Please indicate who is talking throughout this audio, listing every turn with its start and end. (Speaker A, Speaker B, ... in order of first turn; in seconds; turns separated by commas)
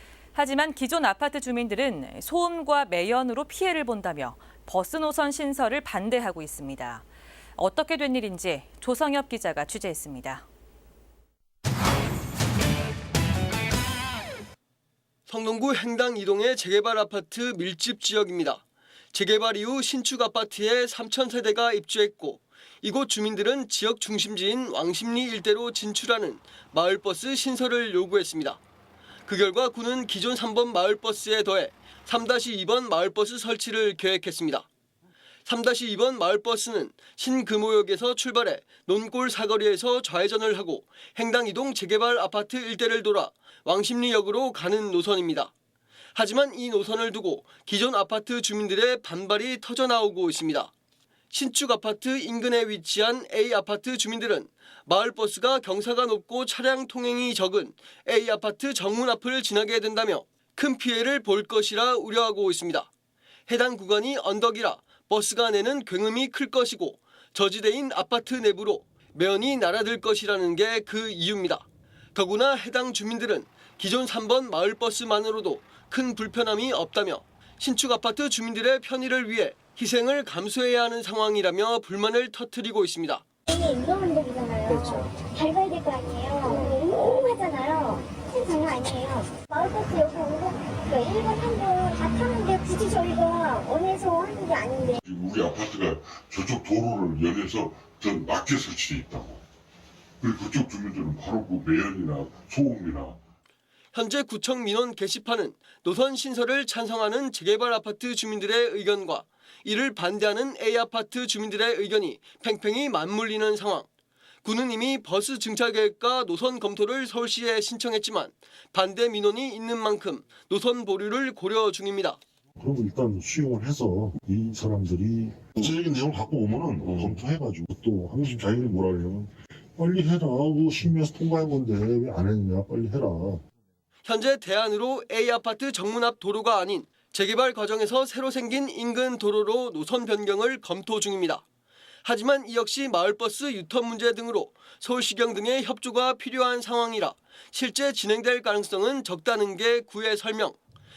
Speaker A: 0.3-7.0, Speaker A: 7.6-10.4, Speaker B: 15.3-28.6, Speaker B: 29.3-34.7, Speaker B: 35.5-45.5, Speaker B: 46.1-50.7, Speaker B: 51.3-62.9, Speaker B: 63.5-83.2, Speaker C: 83.5-95.0, Speaker D: 95.0-99.4, Speaker D: 100.2-103.2, Speaker B: 103.9-113.9, Speaker B: 114.4-122.2, Speaker E: 122.6-133.4, Speaker D: 126.8-127.2, Speaker B: 134.1-141.4, Speaker B: 142.0-150.6